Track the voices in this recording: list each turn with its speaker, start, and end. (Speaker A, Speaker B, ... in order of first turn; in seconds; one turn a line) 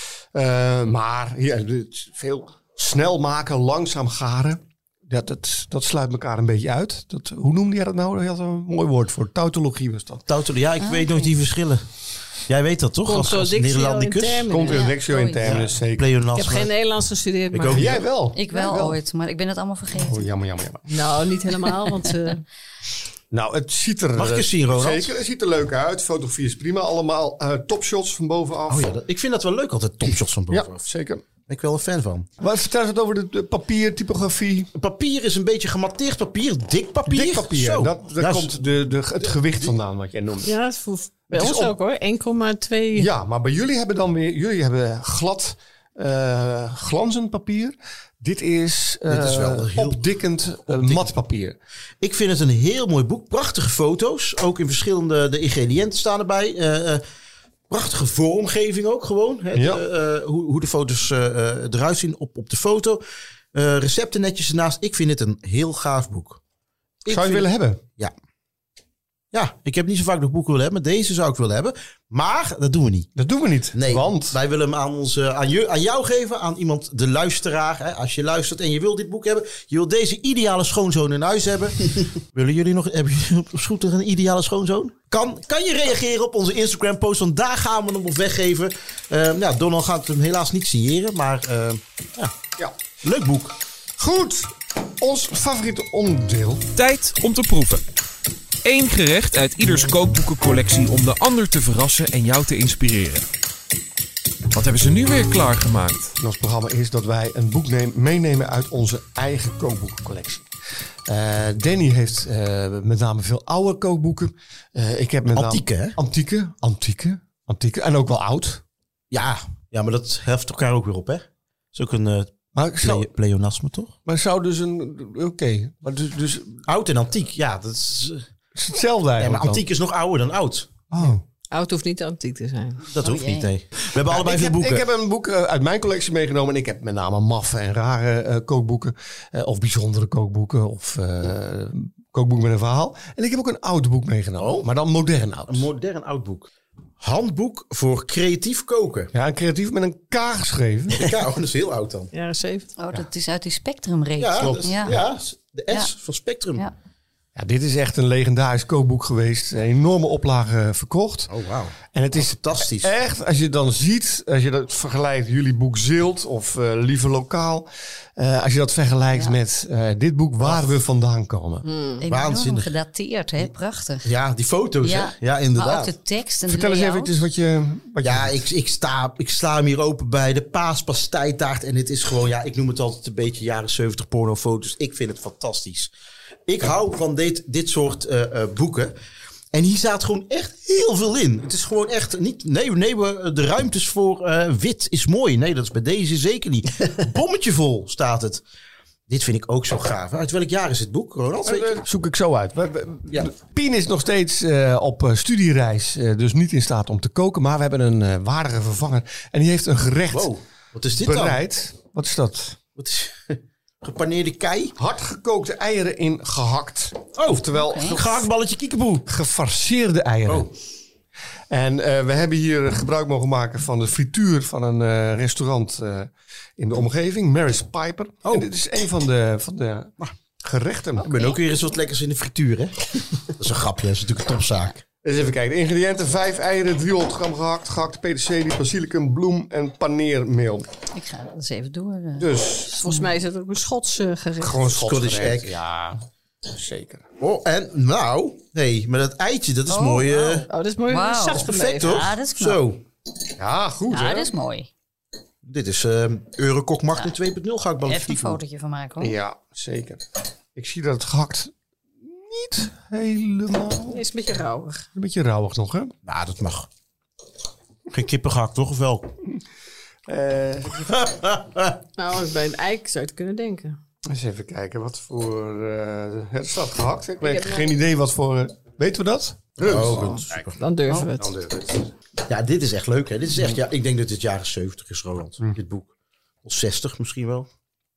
Speaker A: 0.3-10.2
Speaker B: 10.3-11.8
Speaker C: 10.8-11.3
Speaker B: 12.5-14.5
Speaker D: 13.0-14.9
Speaker A: 14.5-16.1
Speaker C: 14.7-15.6
Speaker B: 15.4-16.7
Speaker D: 16.3-18.0
Speaker B: 17.5-18.0
Speaker A: 17.7-19.0
Speaker C: 18.3-20.2
Speaker A: 20.0-21.1
Speaker D: 20.9-22.4
Speaker A: 23.3-28.9
Speaker B: 24.1-25.1
Speaker B: 28.7-30.9
Speaker A: 30.5-31.2
Speaker B: 31.5-32.3
Speaker A: 32.4-34.7
Speaker B: 34.7-38.6
Speaker A: 37.1-40.5
Speaker B: 39.2-39.7
Speaker D: 40.4-43.1
Speaker A: 41.3-41.7
Speaker A: 43.0-51.5
Speaker B: 49.1-50.1
Speaker B: 50.7-51.1
Speaker B: 52.0-57.0
Speaker B: 57.7-63.0
Speaker A: 59.5-59.8
Speaker B: 63.5-66.4
Speaker B: 67.0-68.1
Speaker A: 67.1-67.8
Speaker B: 69.3-73.1
Speaker A: 73.2-74.4
Speaker B: 73.7-92.3
Speaker B: 93.0-93.5
Speaker A: 94.0-96.7
Speaker E: 96.8-97.8
Speaker E: 98.6-103.3
Speaker E: 104.5-106.2
Speaker A: 106.2-110.4
Speaker A: 111.1-118.6
Speaker B: 115.3-116.0
Speaker B: 119.1-123.9
Speaker A: 122.5-123.1
Speaker A: 124.0-126.6
Speaker B: 126.7-128.3
Speaker A: 128.5-129.6
Speaker B: 129.2-130.7
Speaker A: 130.9-131.2
Speaker D: 131.5-132.8
Speaker B: 132.9-134.9
Speaker C: 132.9-133.5
Speaker A: 134.0-145.7
Speaker B: 144.4-144.7
Speaker B: 145.5-149.1
Speaker A: 149.1-151.2
Speaker B: 150.9-152.1
Speaker D: 152.1-152.7
Speaker C: 152.8-155.0
Speaker B: 154.2-156.6
Speaker A: 154.4-155.0
Speaker A: 157.3-161.3
Speaker B: 161.3-162.9
Speaker A: 161.9-171.7
Speaker B: 170.4-170.8
Speaker D: 171.6-172.0
Speaker C: 172.0-174.1
Speaker B: 172.1-172.7
Speaker B: 174.0-175.9
Speaker C: 174.8-177.2
Speaker A: 176.5-178.4
Speaker B: 178.0-185.9
Speaker B: 186.5-188.9
Speaker B: 189.5-198.4
Speaker B: 199.1-201.8
Speaker A: 201.4-210.3
Speaker B: 210.1-211.4
Speaker A: 210.9-212.6
Speaker B: 212.8-214.7
Speaker A: 214.8-218.3
Speaker B: 217.2-219.1
Speaker C: 217.6-218.0
Speaker A: 219.1-220.5
Speaker A: 221.5-229.9
Speaker A: 230.4-231.3
Speaker C: 231.1-231.3
Speaker B: 231.1-234.8
Speaker A: 235.0-240.7
Speaker C: 240.9-243.1
Speaker A: 242.2-242.7
Speaker D: 242.7-244.8
Speaker A: 244.4-247.0
Speaker B: 244.8-245.6
Speaker B: 247.2-250.5
Speaker C: 249.7-252.6
Speaker D: 250.5-252.0
Speaker B: 251.3-252.8
Speaker A: 253.4-254.3
Speaker C: 253.9-254.7
Speaker B: 255.4-258.4
Speaker C: 257.9-259.1
Speaker A: 259.0-261.5
Speaker A: 262.1-264.0
Speaker D: 263.9-264.9
Speaker A: 264.9-265.9
Speaker B: 266.1-266.7
Speaker B: 267.9-269.1
Speaker A: 270.1-271.1
Speaker B: 270.8-271.8
Speaker D: 272.0-273.8
Speaker A: 274.1-280.5
Speaker D: 277.2-277.7
Speaker B: 279.6-280.6
Speaker D: 280.6-281.3
Speaker A: 281.0-281.9
Speaker B: 282.2-285.9
Speaker B: 286.4-287.5